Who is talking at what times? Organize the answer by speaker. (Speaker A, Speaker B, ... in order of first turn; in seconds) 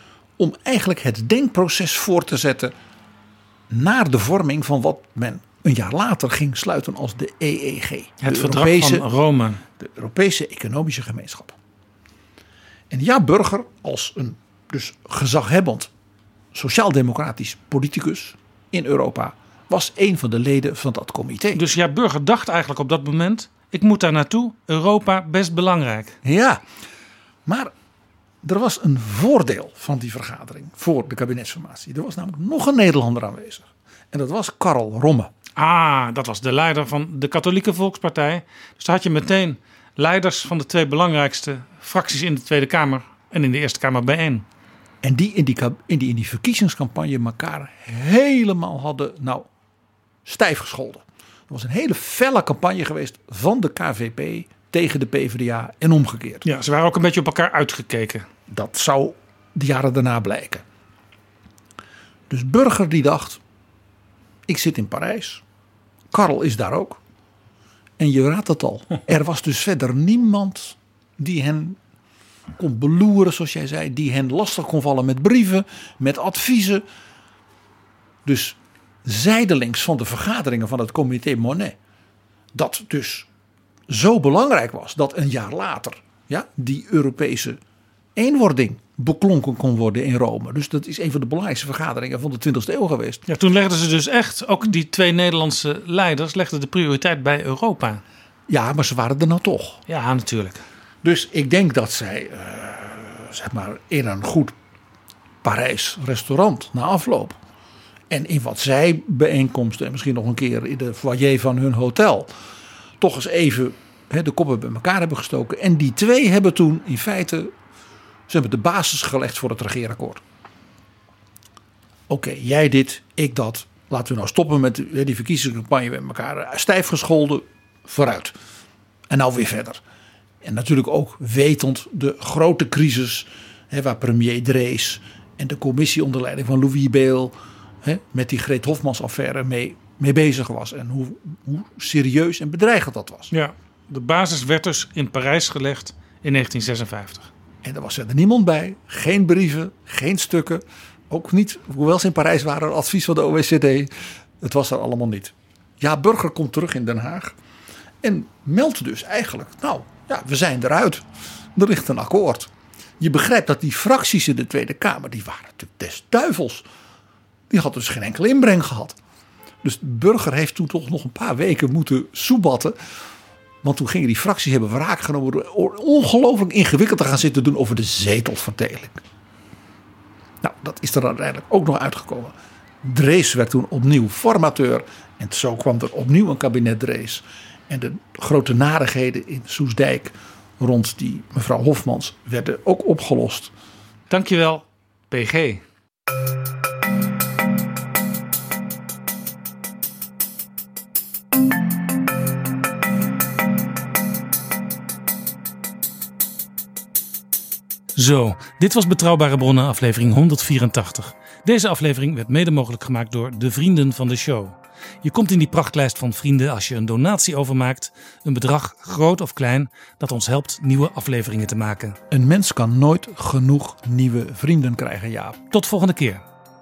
Speaker A: 0.4-2.7, 3.7-9.1, 9.8-11.6, 12.9-15.9, 16.5-21.6, 26.2-26.6, 27.4-27.7, 28.4-35.3, 45.0-49.5, 50.2-56.4, 58.5-60.6, 62.3-63.4, 64.5-65.4, 66.1-67.0, 68.0-71.8, 72.6-76.8, 78.2-81.8, 82.5-83.3, 83.9-87.6, 88.2-93.2, 98.5-99.8, 101.0-104.5, 105.4-107.4, 108.1-112.3, 113.0-117.5, 118.3-120.2, 122.1-128.4, 129.1-129.8, 130.4-143.3, 147.6-157.4, 158.0-166.7, 167.5-169.0, 169.6-172.8, 173.6-179.0, 180.4-193.5, 222.1-225.4
Speaker B: 8.2-9.6, 21.6-26.2, 35.6-44.5, 56.4-58.3, 93.3-98.0, 99.9-100.6, 143.3-147.3, 194.1-195.6, 207.9-222.0, 225.5-226.2